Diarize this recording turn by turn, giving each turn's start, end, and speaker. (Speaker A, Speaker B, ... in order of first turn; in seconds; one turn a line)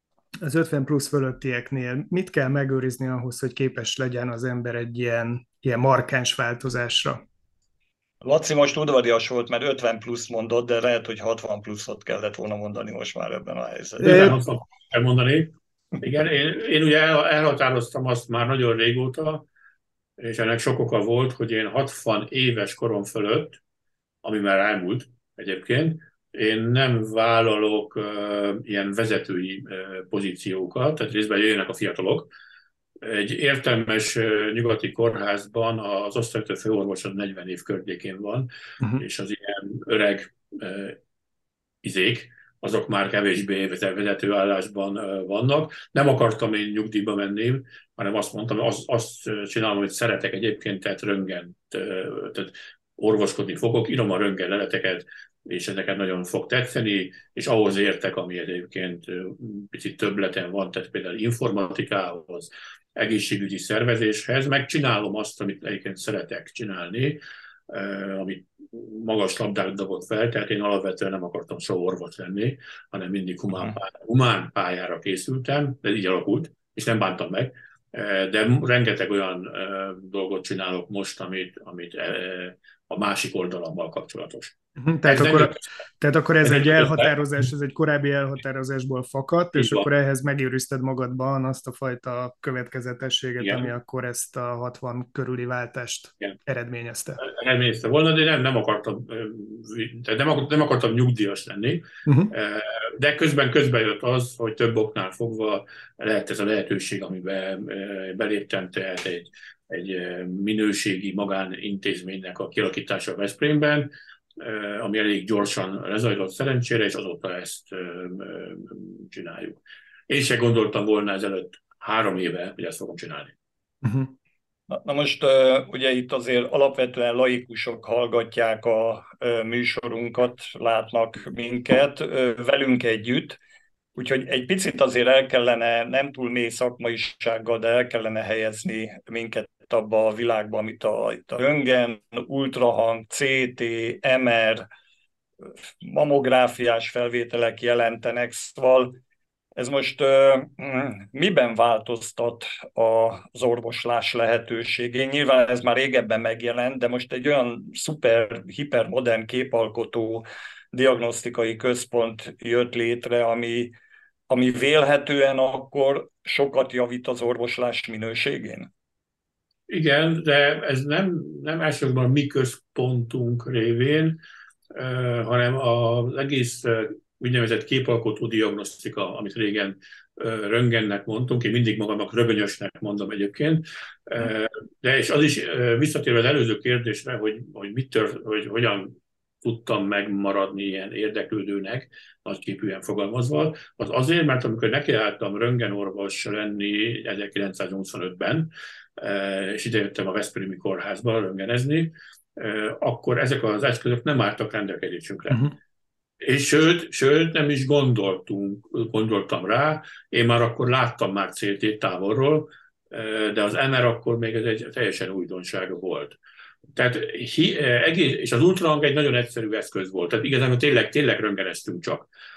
Speaker A: 0.4-7.2
Speaker B: 8.2-14.3
Speaker C: 14.0-19.4
Speaker A: 14.0-14.3
Speaker C: 20.2-23.6
Speaker C: 24.2-32.3
Speaker C: 33.0-41.0
Speaker C: 41.8-85.6
Speaker A: 84.8-97.2
Speaker C: 86.4-87.2
Speaker C: 89.5-89.9
Speaker C: 93.4-93.7
Speaker C: 97.2-123.3
Speaker A: 102.0-102.3
Speaker A: 123.8-124.1
Speaker B: 124.7-133.4
Speaker B: 133.9-144.7
Speaker B: 145.5-149.0
Speaker B: 149.6-163.7
Speaker B: 164.3-168.7
Speaker C: 169.7-174.2
Speaker C: 174.7-205.5
Speaker C: 206.2-216.2
Speaker C: 216.7-222.1